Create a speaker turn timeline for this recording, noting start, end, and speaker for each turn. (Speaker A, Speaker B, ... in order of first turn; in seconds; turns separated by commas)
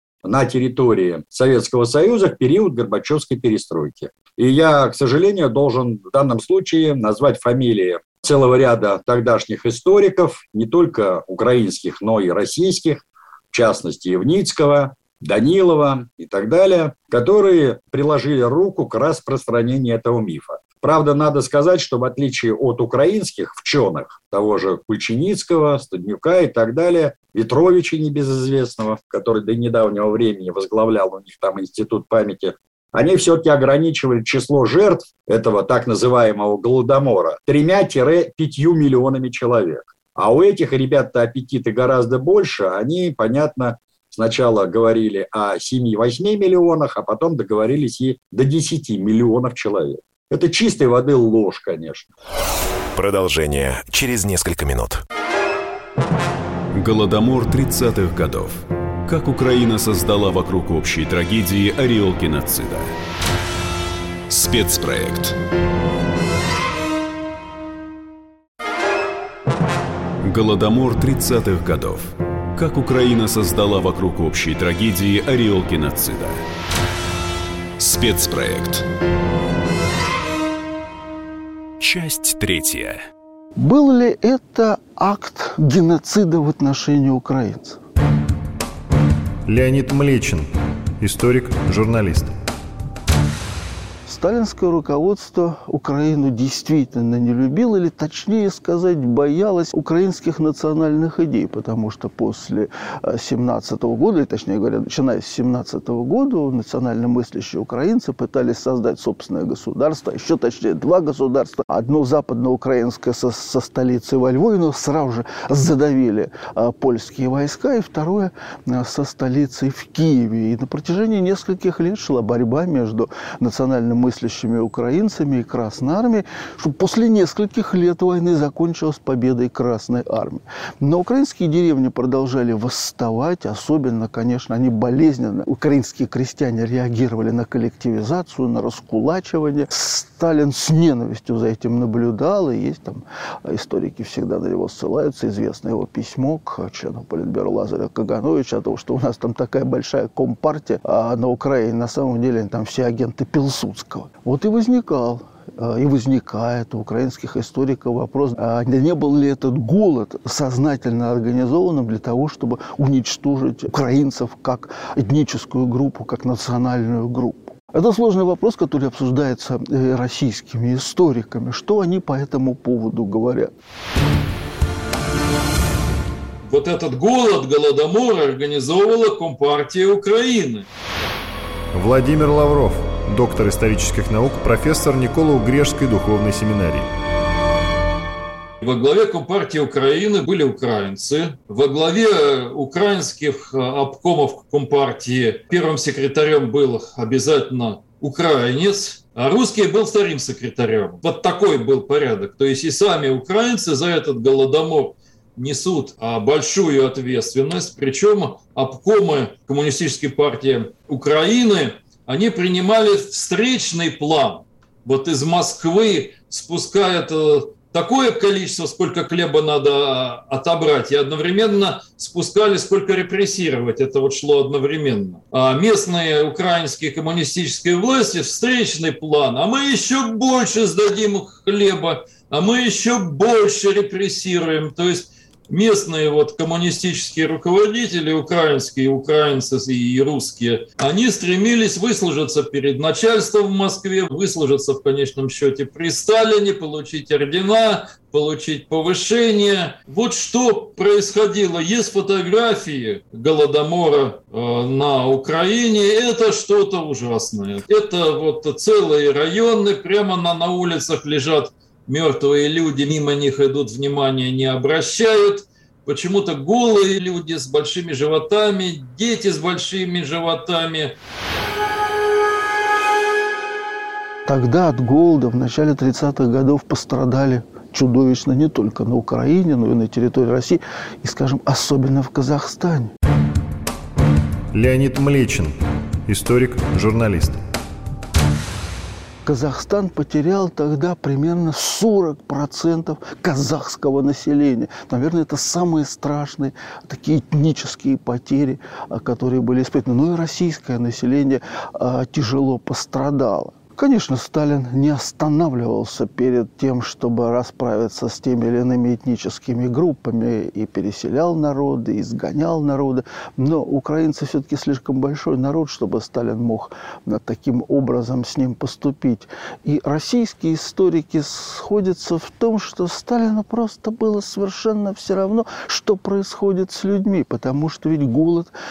Speaker A: 0.2-52.1, Speaker B: 52.9-55.0, Speaker C: 56.8-62.9, Speaker C: 64.3-65.4, Speaker C: 70.2-76.4, Speaker C: 77.8-78.8, Speaker C: 81.8-83.0, Speaker B: 81.8-82.9, Speaker D: 83.6-87.8, Speaker E: 89.5-90.5, Speaker E: 91.0-92.3, Speaker D: 94.1-173.5, Speaker F: 176.4-180.7, Speaker E: 181.7-186.9, Speaker F: 188.6-270.9, Speaker D: 274.3-282.9, Speaker E: 284.5-285.5, Speaker E: 286.1-287.4, Speaker D: 289.2-328.5